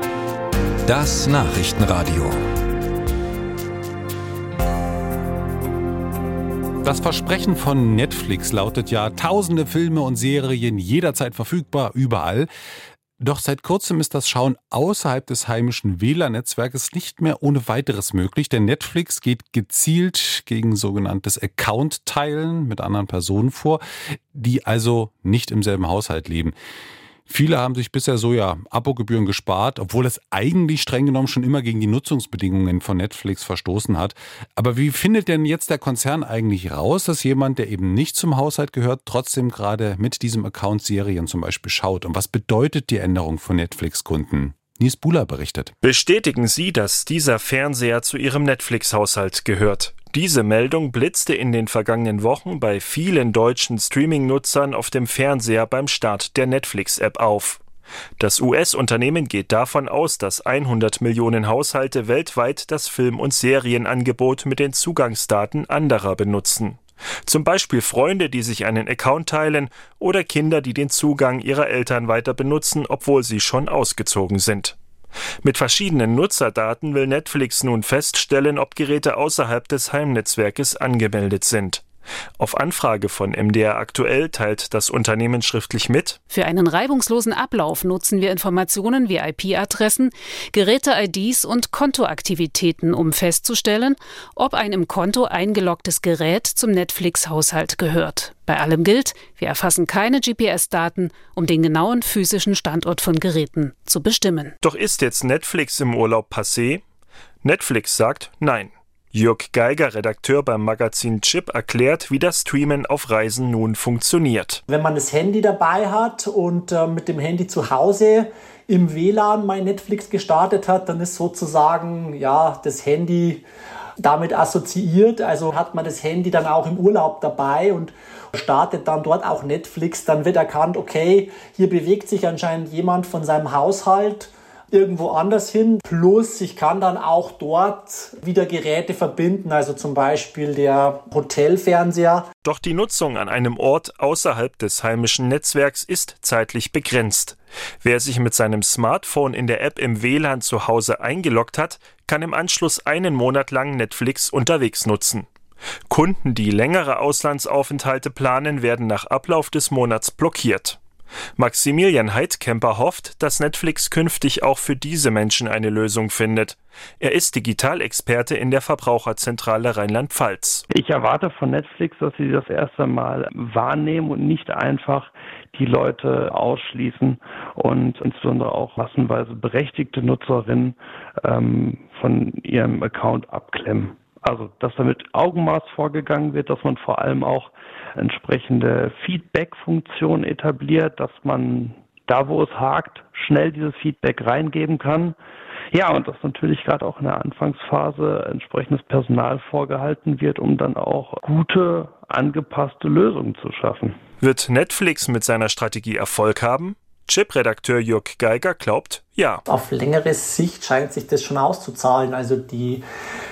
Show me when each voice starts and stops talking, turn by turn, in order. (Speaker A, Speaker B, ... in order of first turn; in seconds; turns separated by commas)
Speaker A: 0.9-2.4, Speaker A: 6.8-12.5, Speaker A: 13.2-23.8, Speaker A: 24.3-26.6, Speaker A: 27.3-45.7, Speaker B: 45.8-57.6, Speaker B: 58.2-74.8, Speaker B: 75.4-81.8, Speaker B: 82.4-86.2, Speaker C: 86.3-104.5, Speaker B: 104.6-106.8, Speaker B: 107.4-114.6, Speaker D: 114.7-123.4, Speaker D: 124.0-142.3, Speaker B: 142.4-155.3, Speaker B: 155.9-160.8, Speaker B: 161.4-170.6, Speaker E: 170.7-195.2, Speaker E: 195.7-204.0, Speaker B: 204.2-209.4, Speaker D: 209.5-212.8